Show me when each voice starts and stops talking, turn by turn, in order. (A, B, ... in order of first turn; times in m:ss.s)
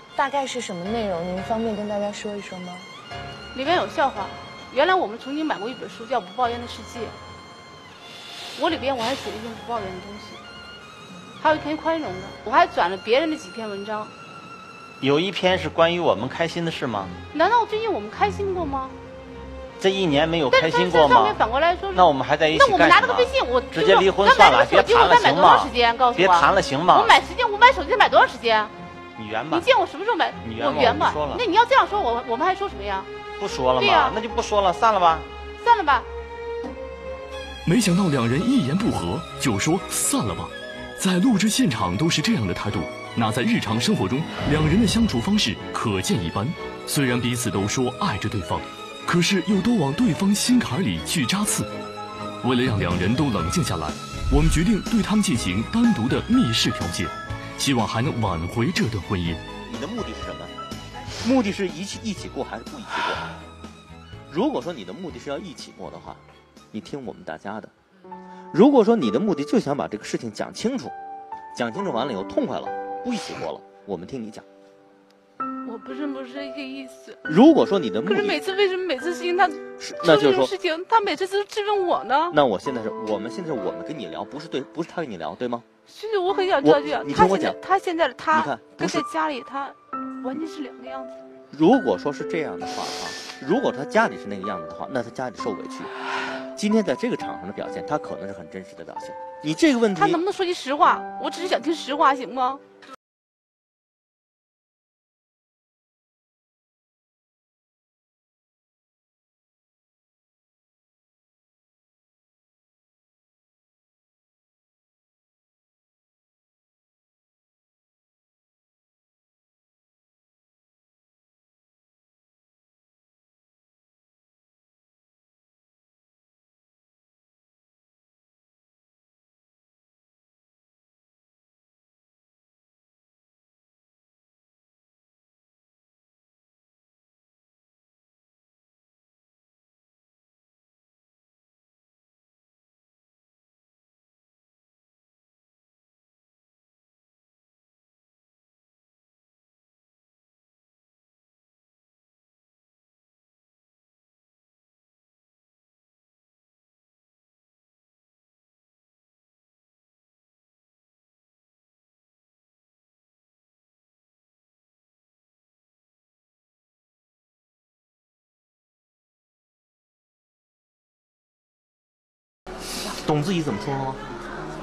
0:00.1-0:02.9 A
0:03.5-0:07.2 B
0:08.6-0:10.4 B
0:11.4-0:14.1 B
0:15.0-0:17.1 C
0:17.3-0:18.9 B
0:19.8-0:21.4 C
0:20.5-0:28.7 B
0:21.9-0:27.2 C
0:29.1-0:29.7 C
0:29.5-0:33.1 B
0:30.4-0:31.4 C
0:33.4-0:35.3 C
0:33.8-0:34.2 B
0:35.6-0:36.1 B
0:37.6-0:51.7 D
0:52.4-0:59.4 D
0:59.6-1:00.5 E
1:01.2-1:03.2 E
1:04.3-1:06.2 E
1:06.7-1:07.7 E
1:08.5-1:10.9 E
1:11.5-1:14.4 E
1:15.6-1:17.2 B
1:17.2-1:18.4 E
1:18.0-1:22.4 B
1:19.8-1:20.5 E
1:22.3-1:25.6 E
1:25.9-1:31.2 B
1:26.6-1:27.4 E
1:28.3-1:29.0 E
1:31.5-1:35.9 E
1:36.6-1:40.2 E
1:40.0-1:42.6 B
2:52.9-2:54.0 E